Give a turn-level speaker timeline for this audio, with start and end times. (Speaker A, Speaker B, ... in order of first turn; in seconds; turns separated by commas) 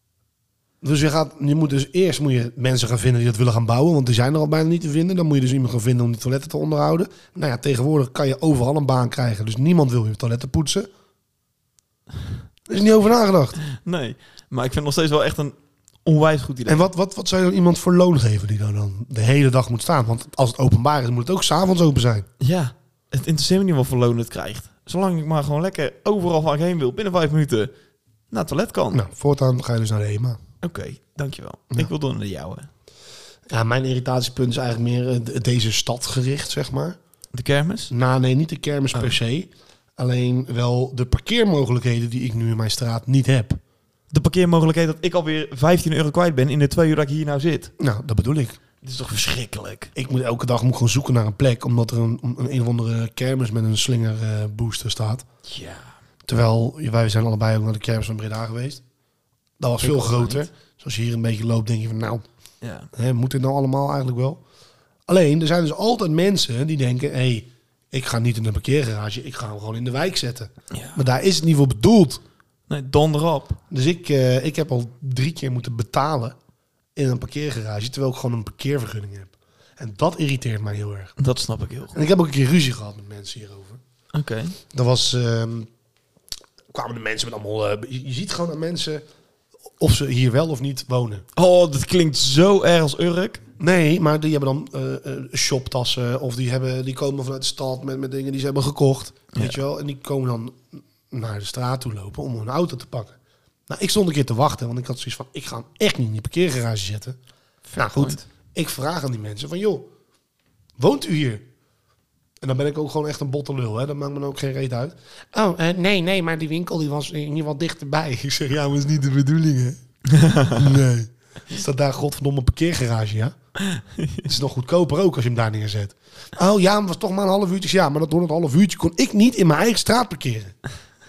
Speaker A: 0.8-10.9, Speaker A: 12.7-13.6, Speaker B: 13.7-16.9, Speaker A: 16.7-22.3, Speaker B: 22.4-27.7, Speaker B: 28.3-29.0, Speaker A: 28.9-30.4, Speaker B: 30.6-32.7, Speaker A: 33.5-37.0, Speaker B: 37.3-37.9, Speaker A: 37.9-43.6, Speaker B: 44.1-47.7, Speaker A: 47.8-48.6, Speaker B: 48.8-49.9, Speaker A: 50.0-55.2, Speaker B: 55.5-55.9, Speaker A: 56.3-58.8, Speaker A: 59.6-62.2, Speaker B: 59.8-60.5, Speaker B: 62.6-62.9, Speaker A: 62.9-64.4, Speaker A: 65.1-72.2, Speaker B: 70.7-71.0, Speaker B: 72.7-73.6, Speaker A: 73.7-76.4, Speaker A: 77.0-81.1, Speaker B: 81.2-82.0, Speaker A: 81.9-83.8, Speaker B: 84.1-84.6, Speaker A: 84.7-85.7, Speaker A: 86.7-89.0, Speaker A: 89.8-91.2, Speaker B: 91.3-93.4, Speaker A: 93.6-103.2, Speaker B: 99.3-99.6, Speaker A: 103.7-107.2, Speaker B: 107.7-108.2, Speaker A: 107.8-109.9, Speaker A: 110.8-111.5, Speaker A: 112.4-119.8, Speaker B: 120.1-120.6, Speaker A: 120.5-123.3, Speaker B: 123.6-124.3, Speaker A: 124.2-130.6